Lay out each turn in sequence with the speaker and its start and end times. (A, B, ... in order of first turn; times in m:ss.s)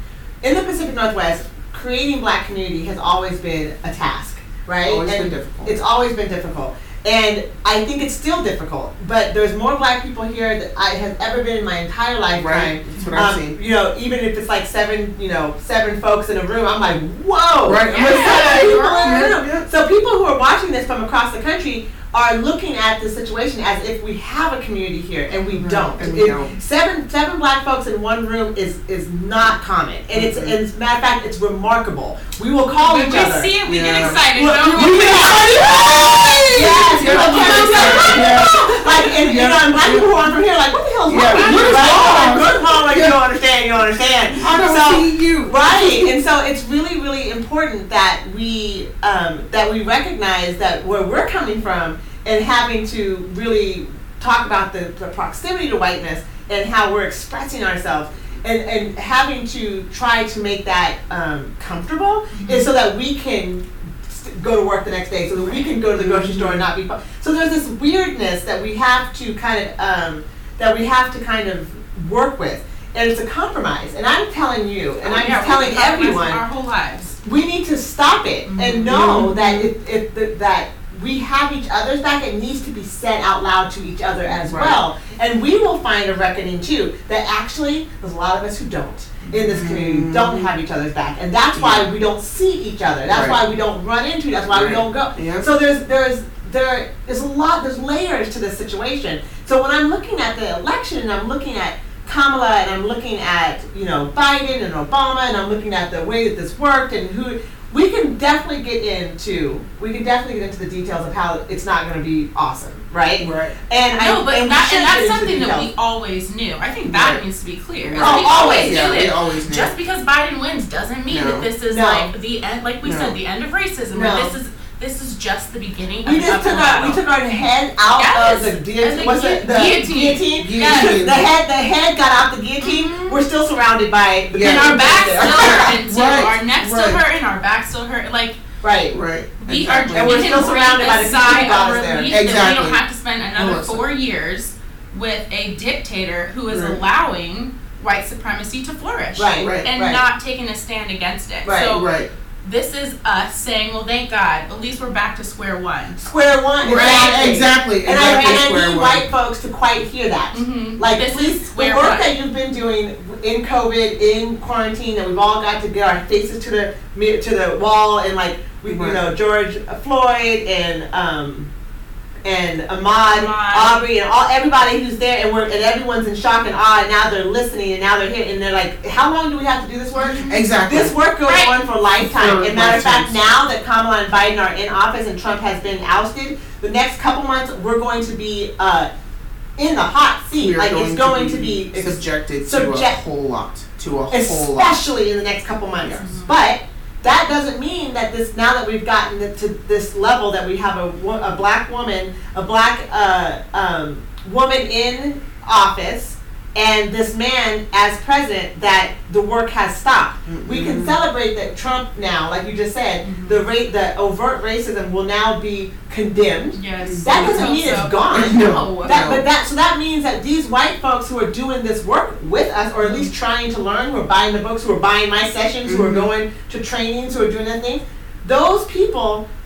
0:00.4-0:33.5 A
0:04.8-0:05.8 B
0:12.4-0:13.6 B
0:17.6-0:19.6 B
0:17.9-0:19.4 C
0:25.3-0:25.6 C
0:25.5-0:26.5 B
0:30.1-0:30.5 B
0:32.8-0:38.4 C
0:33.6-0:40.3 B
0:34.2-0:35.8 A
0:36.5-1:16.4 A
0:41.1-0:43.2 B
0:41.3-0:42.3 C
0:44.3-0:46.1 B
1:02.3-1:02.7 C
1:05.4-1:05.7 C
1:06.0-1:06.6 B
1:15.0-1:17.2 C
1:17.2-1:55.7 A
1:18.5-1:19.0 C
1:18.9-1:19.7 B
1:24.3-1:24.8 B
1:29.3-1:30.5 B
1:31.5-1:31.9 B
1:33.1-1:33.4 B
1:34.5-1:35.4 B
1:53.2-1:53.5 B
1:53.9-2:07.0 C
1:56.8-1:57.2 B
1:57.8-1:59.7 B
1:58.0-1:58.8 A
2:01.1-2:01.5 B
2:01.7-2:02.1 A
2:02.8-2:03.2 B
2:03.9-2:04.3 A
2:06.0-2:15.8 A
2:07.9-2:11.0 C
2:10.4-2:11.2 B
2:12.6-2:13.2 C
2:14.3-2:17.0 B
2:14.4-2:18.4 C
2:18.6-2:19.0 A
2:18.9-2:20.5 B
2:19.4-2:31.9 C
2:19.9-2:22.1 A
2:22.1-2:22.8 B
2:23.3-2:23.8 B
2:26.5-2:26.8 B
2:29.2-2:30.0 A
2:29.4-2:29.7 B
2:31.4-2:31.8 A
2:31.7-2:32.1 B
2:32.4-2:36.0 C
2:36.0-2:51.5 A
2:36.6-2:39.1 B
2:36.6-2:37.2 C
2:40.3-2:42.1 C
2:48.7-2:49.0 B
2:52.2-3:08.9 A
2:53.0-2:53.8 C
3:00.0-3:00.4 C
3:00.2-3:00.9 B
3:01.2-3:01.5 C
3:02.0-3:03.2 B
3:09.6-3:13.0 A
3:10.4-3:14.8 B
3:14.1-3:49.2 A
3:16.0-3:16.3 C
3:30.2-3:31.0 B
3:33.0-3:33.4 C
3:36.5-3:39.1 C
3:36.8-3:39.2 B
3:42.8-3:43.1 C
3:45.6-3:46.1 B